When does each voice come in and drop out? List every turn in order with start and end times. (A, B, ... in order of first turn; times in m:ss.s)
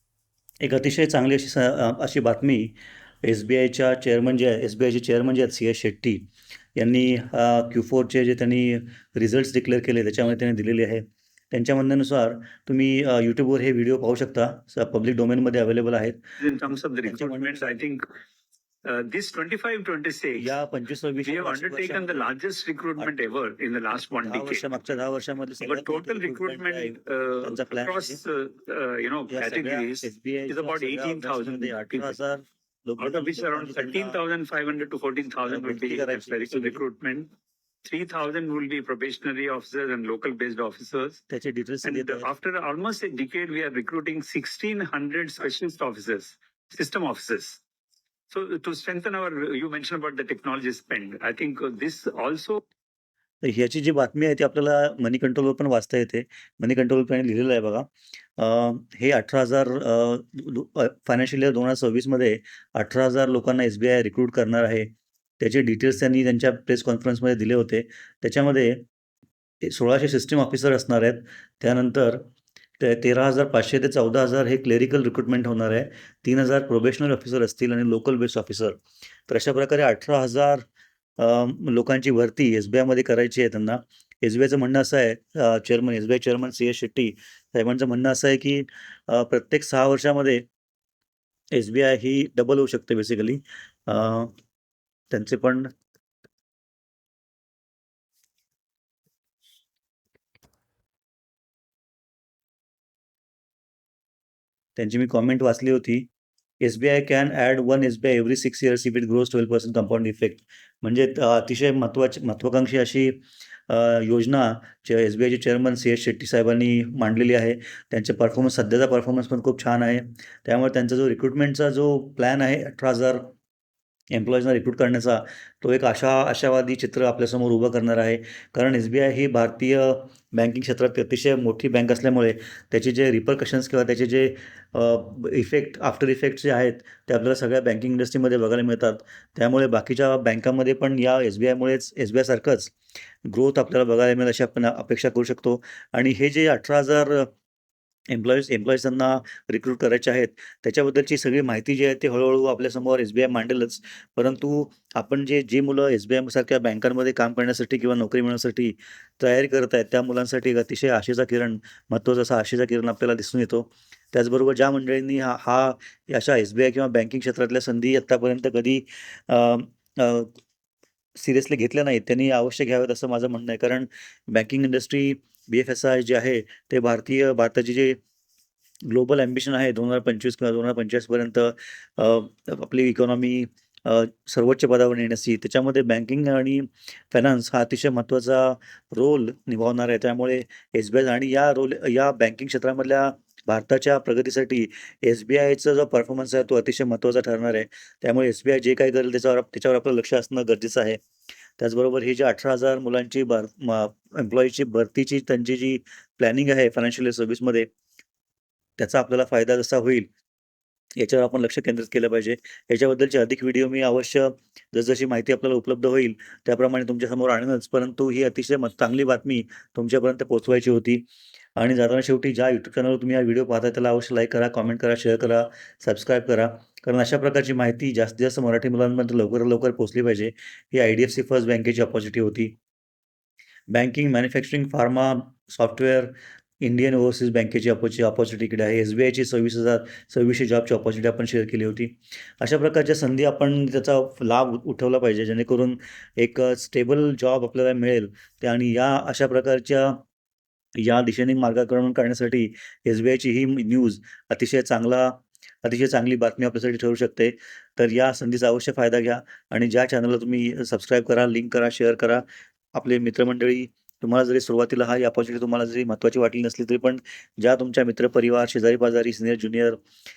0:00.6-0:16.2 A
0:16.4-0:18.0 B
0:17.1-0:17.8 A
0:18.8-0:20.5 B
0:20.4-0:22.3 A
0:21.2-0:24.7 B
0:24.2-0:28.2 A
0:25.6-0:32.2 B
0:29.3-0:34.2 A
0:33.0-0:37.3 B
0:35.5-0:36.8 A
0:37.8-0:41.2 B
0:41.3-0:42.3 A
0:41.8-0:47.6 B
0:48.3-0:52.6 B
0:53.4-1:04.9 A
1:05.4-1:08.8 A
1:09.6-1:12.3 A
1:12.8-1:20.7 A
1:21.2-1:30.4 A
1:31.5-1:34.3 A
1:35.1-1:35.7 A
1:44.8-1:46.1 A
1:46.6-2:03.3 A
2:04.1-2:22.7 A
2:23.2-2:27.3 A
2:28.1-2:50.3 A
2:51.2-2:58.0 A
2:58.9-3:21.0 A
3:21.6-3:27.7 A
3:28.8-3:30.1 A
3:31.0-3:41.0 A
3:41.6-3:52.5 A
3:53.7-4:10.0 A
4:10.8-4:29.8 A